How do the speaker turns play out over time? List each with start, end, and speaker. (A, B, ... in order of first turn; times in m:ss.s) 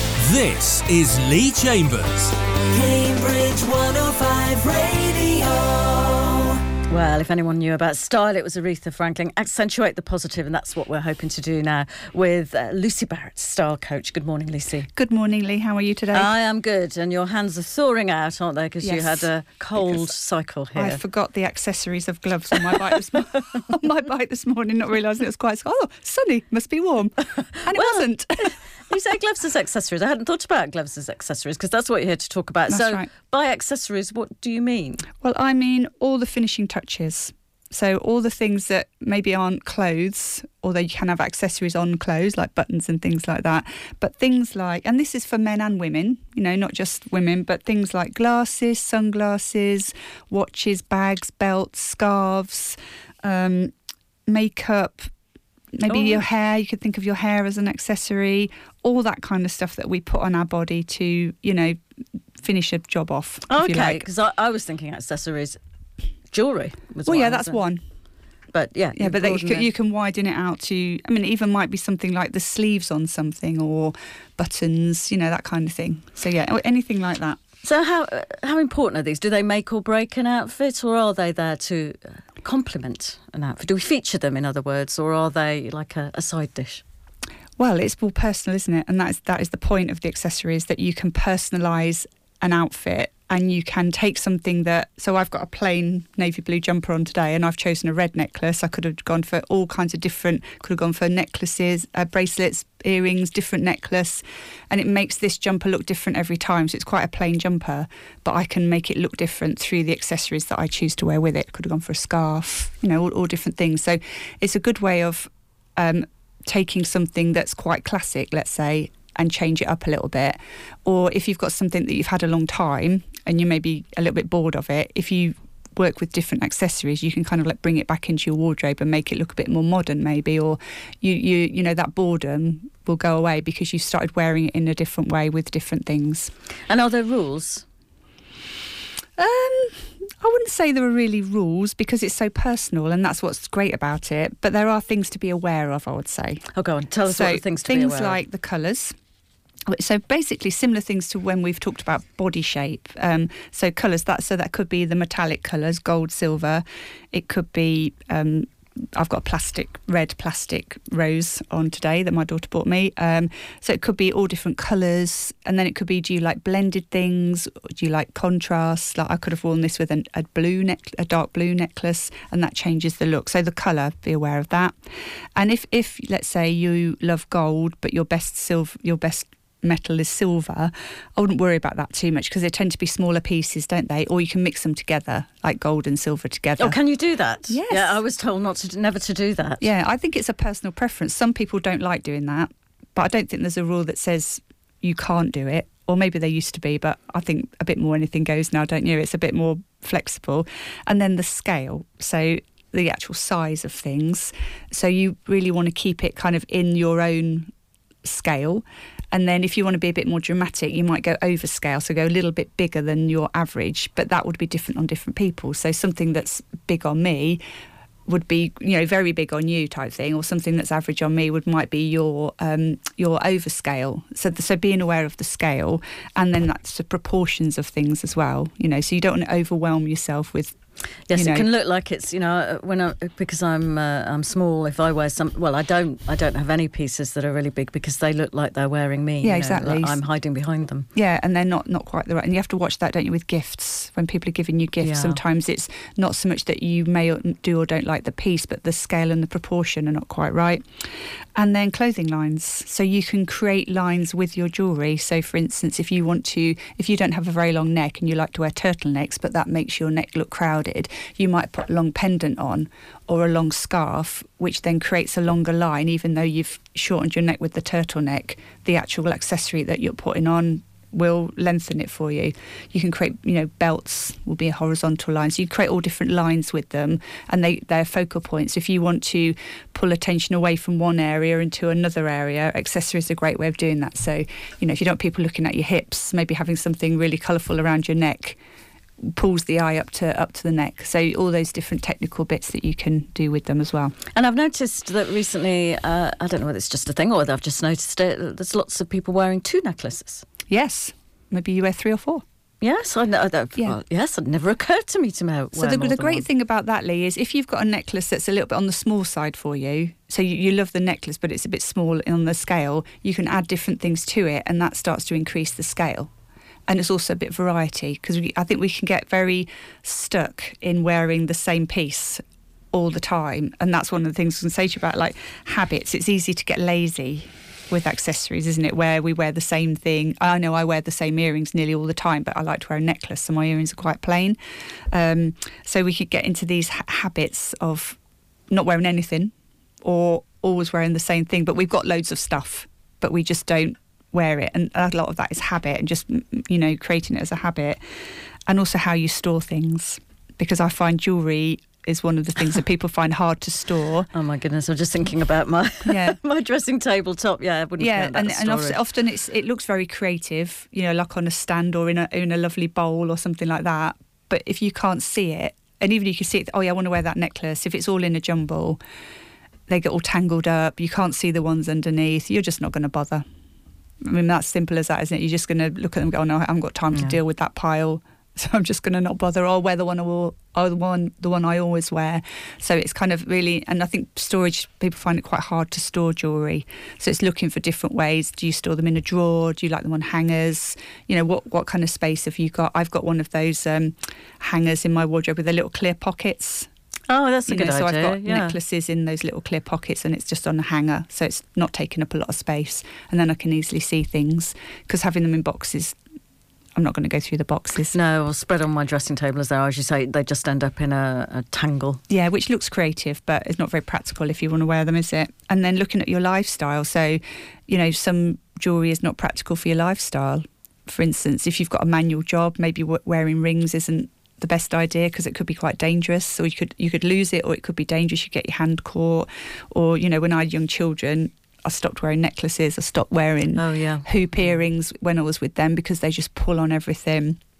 0:00.2-0:02.3 A
0:02.7-0:06.5 B
0:06.9-0:14.9 C
0:15.0-0:16.3 D
0:16.1-0:21.0 C
0:18.8-0:20.1 D
0:20.7-0:28.6 D
0:27.5-0:35.1 C
0:32.7-0:33.1 D
0:35.2-0:53.7 D
0:54.3-0:55.1 D
0:55.7-1:01.8 D
0:55.9-0:56.2 C
1:02.4-1:04.0 D
1:03.5-1:05.6 C
1:06.3-1:07.6 C
1:07.0-1:07.8 D
1:08.5-1:09.7 C
1:09.0-1:17.4 D
1:17.6-1:26.8 C
1:27.6-2:16.3 D
2:16.7-2:17.6 C
2:19.2-2:26.4 D
2:26.5-2:28.2 C
2:27.0-2:28.9 D
2:29.7-2:54.7 D
2:55.4-3:06.8 D
3:06.6-3:09.7 C
3:07.5-3:08.0 D
3:09.6-3:27.5 D
3:28.0-3:37.4 D
3:38.1-3:50.6 D
3:51.1-4:00.9 C
3:51.1-3:51.5 D
3:59.2-4:00.0 D
4:00.9-4:48.4 D
4:04.8-4:05.2 C
4:49.0-4:53.9 D
4:54.1-5:00.2 C
5:00.5-5:02.2 D
5:02.6-5:06.2 C
5:05.5-5:16.1 D
5:16.7-5:22.2 D
5:22.7-5:34.4 D
5:34.9-5:38.0 D
5:38.5-5:39.3 D
5:39.8-5:47.8 D
5:48.5-5:54.1 D
5:54.1-5:58.8 C
5:55.8-5:56.2 D
5:57.8-6:08.8 D
6:09.7-6:13.2 D
6:14.0-6:36.7 D
6:37.1-6:38.6 C
6:37.5-6:46.0 D
6:46.8-6:48.0 D
6:47.9-6:52.0 C
6:52.1-7:17.4 D
7:13.5-7:14.6 C